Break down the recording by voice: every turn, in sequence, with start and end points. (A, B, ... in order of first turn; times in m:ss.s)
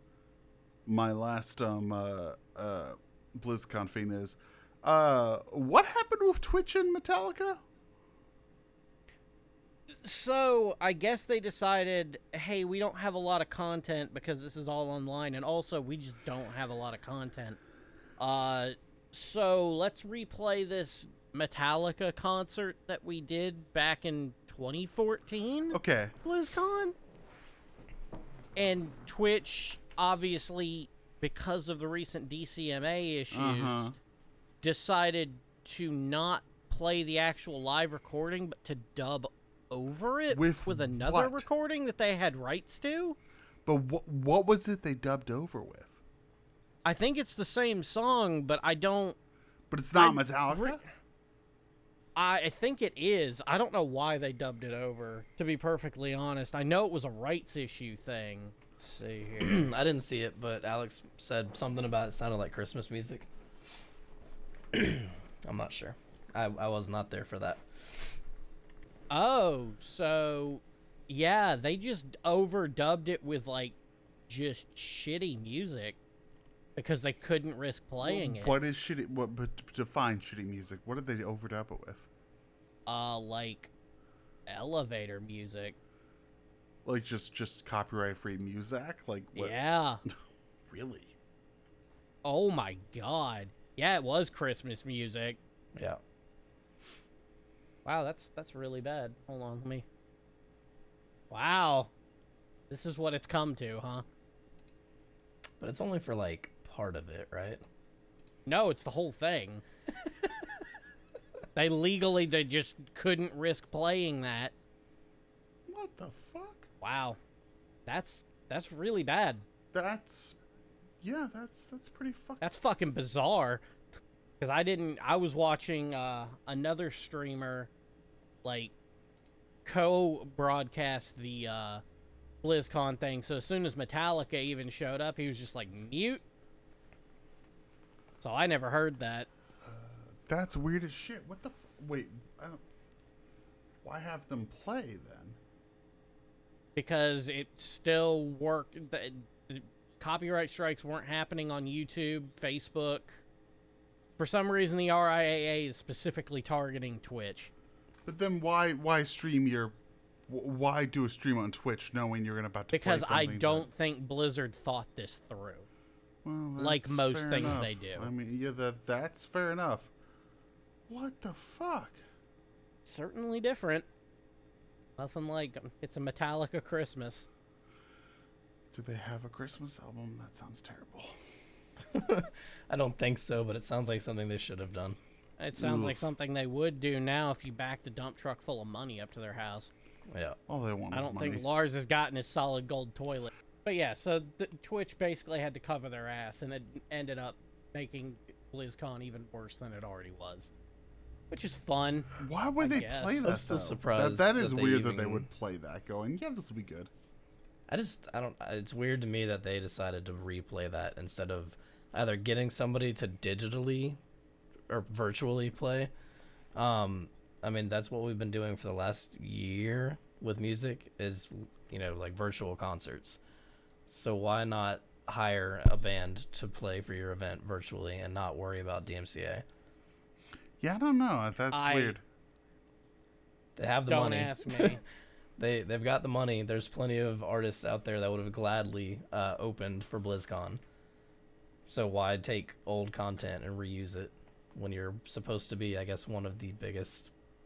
0:00.9-0:07.6 A
0:10.0-0:17.6 B
0:18.2-0:27.0 B
0:25.7-0:26.1 A
0:28.6-0:33.9 B
0:33.3-0:34.0 A
0:34.6-0:43.2 B
0:40.3-0:41.5 A
0:43.6-0:46.0 A
0:46.8-0:49.2 B
0:49.7-0:50.8 A
0:50.0-0:50.8 B
0:52.2-0:59.7 B
0:59.4-1:03.3 C
1:04.7-1:08.1 C
1:09.1-1:13.8 B
1:14.3-1:16.0 B
1:16.8-1:18.6 B
1:18.0-1:22.1 A
1:22.9-1:23.7 B
1:24.5-1:25.8 B
1:26.8-1:29.6 A
1:29.3-1:30.0 B
1:30.1-1:31.2 A
1:32.2-1:35.4 B
1:35.8-1:36.0 C
1:37.8-1:39.9 B
1:41.3-1:41.9 B
1:42.7-1:44.0 B
1:45.6-1:47.6 C
1:48.5-1:49.6 B
1:51.6-1:54.5 B
1:55.7-1:56.7 A
1:56.8-1:57.2 B
1:57.9-1:59.4 B
1:59.7-2:00.4 A
2:01.0-2:02.5 A
2:02.4-2:03.6 B
2:04.4-2:07.7 B
2:08.4-2:08.7 B
2:09.6-2:11.8 B
2:12.4-2:16.2 B
2:18.2-2:19.3 B
2:19.6-2:22.6 A
2:23.8-2:25.4 A
2:26.8-2:33.2 B
2:34.2-2:37.5 B
2:38.0-2:39.8 A
2:40.3-2:43.7 A
2:42.7-2:45.7 B
2:46.2-2:49.9 A
2:46.6-2:48.1 B
2:50.9-2:52.0 A
2:52.8-2:53.9 B
2:55.0-2:57.3 B
2:58.7-3:01.2 A
3:01.9-3:05.0 C
3:05.4-3:09.7 B
3:05.6-3:06.0 A
3:10.1-3:10.4 C
3:10.5-3:11.4 A
3:10.9-3:20.5 B
3:21.3-3:23.3 B
3:22.2-3:26.9 A
3:23.2-3:25.3 C
3:27.7-3:34.0 C
3:34.7-3:35.9 C
3:36.6-3:43.2 C
3:43.9-3:49.4 C
3:50.6-3:52.0 A
3:51.5-3:52.0 B
3:53.6-3:54.8 C
3:53.9-3:54.8 B
3:55.4-4:00.6 C
4:01.6-4:07.1 C